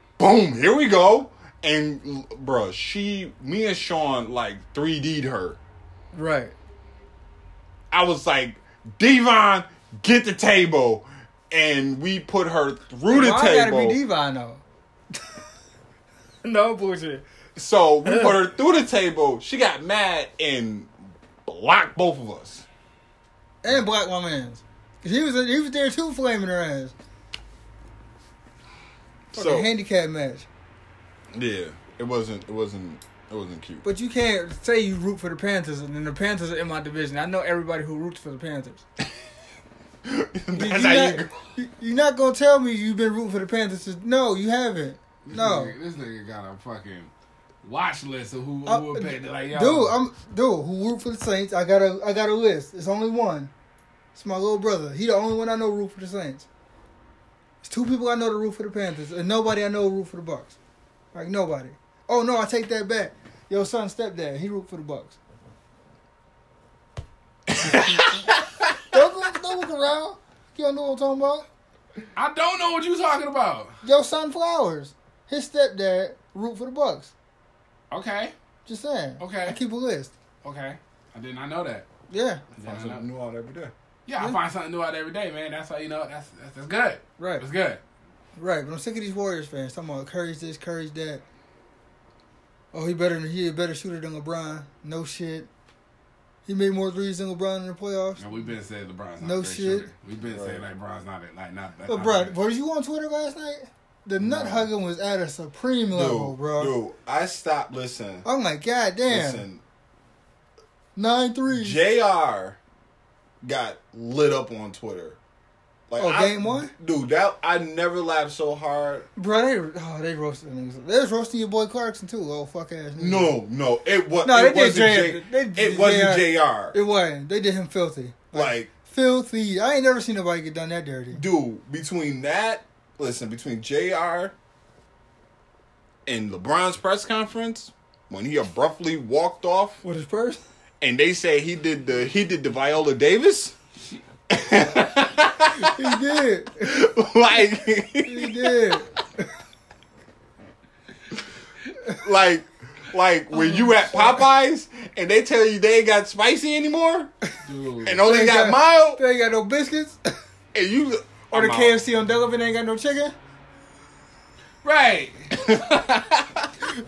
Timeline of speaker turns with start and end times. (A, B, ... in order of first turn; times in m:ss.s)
0:00.2-0:05.6 A
0:06.1-0:06.5 B
0:07.9-0:14.0 A
0:13.1-0:14.6 B
0:16.4-0:17.2 B
0:17.6-0:20.9 A
0:18.0-0:18.4 B
0:21.4-0:22.6 A
0:23.6-0:26.9 B
0:29.3-0:29.7 A
0:29.3-0:30.5 B
0:31.3-0:33.8 A
0:33.8-0:38.8 B
0:40.0-0:41.3 A
0:40.5-0:45.7 B
0:45.2-0:47.1 C
0:47.6-0:49.9 C
0:48.6-0:53.5 B
0:54.1-0:56.5 B
0:57.6-1:00.6 B
1:01.1-1:05.2 B
1:07.6-1:08.7 A
1:07.7-1:08.1 B
1:08.8-1:11.4 B
1:12.2-1:13.8 C
1:13.8-1:17.1 B
1:17.9-1:18.3 C
1:18.6-1:20.1 B
1:19.2-1:19.6 C
1:20.4-1:21.8 C
1:22.1-1:22.4 B
1:22.5-1:23.0 C
1:22.6-1:23.7 A
1:24.1-1:27.8 C
1:27.2-1:27.4 B
1:28.4-1:31.2 B
1:32.7-1:35.5 B
1:36.4-1:38.2 B
1:38.2-1:42.3 C
1:39.2-1:39.9 B
1:40.2-1:40.6 A
1:41.9-1:46.8 B
1:44.2-1:44.7 A
1:45.9-1:48.2 A
1:48.2-1:49.4 B
1:49.1-1:49.6 A
1:51.0-1:51.8 B
1:51.5-1:52.6 A
1:53.4-1:55.2 A
1:55.9-1:59.1 A
1:56.0-1:56.7 B
1:59.2-2:03.4 B
2:03.0-2:06.8 A
2:04.2-2:11.2 B
2:08.3-2:08.7 A
2:11.1-2:14.3 A
2:16.0-2:19.8 A
2:19.8-2:20.4 B
2:20.8-2:23.6 A
2:24.3-2:28.8 A
2:25.5-2:26.7 B
2:28.0-2:28.9 B
2:31.8-2:37.1 A
2:33.3-2:34.2 B
2:37.4-2:38.0 C
2:37.8-2:39.0 A
2:38.0-2:40.0 B
2:40.5-2:41.8 A
2:41.3-2:43.1 B
2:44.6-2:45.6 C
2:45.4-2:46.5 A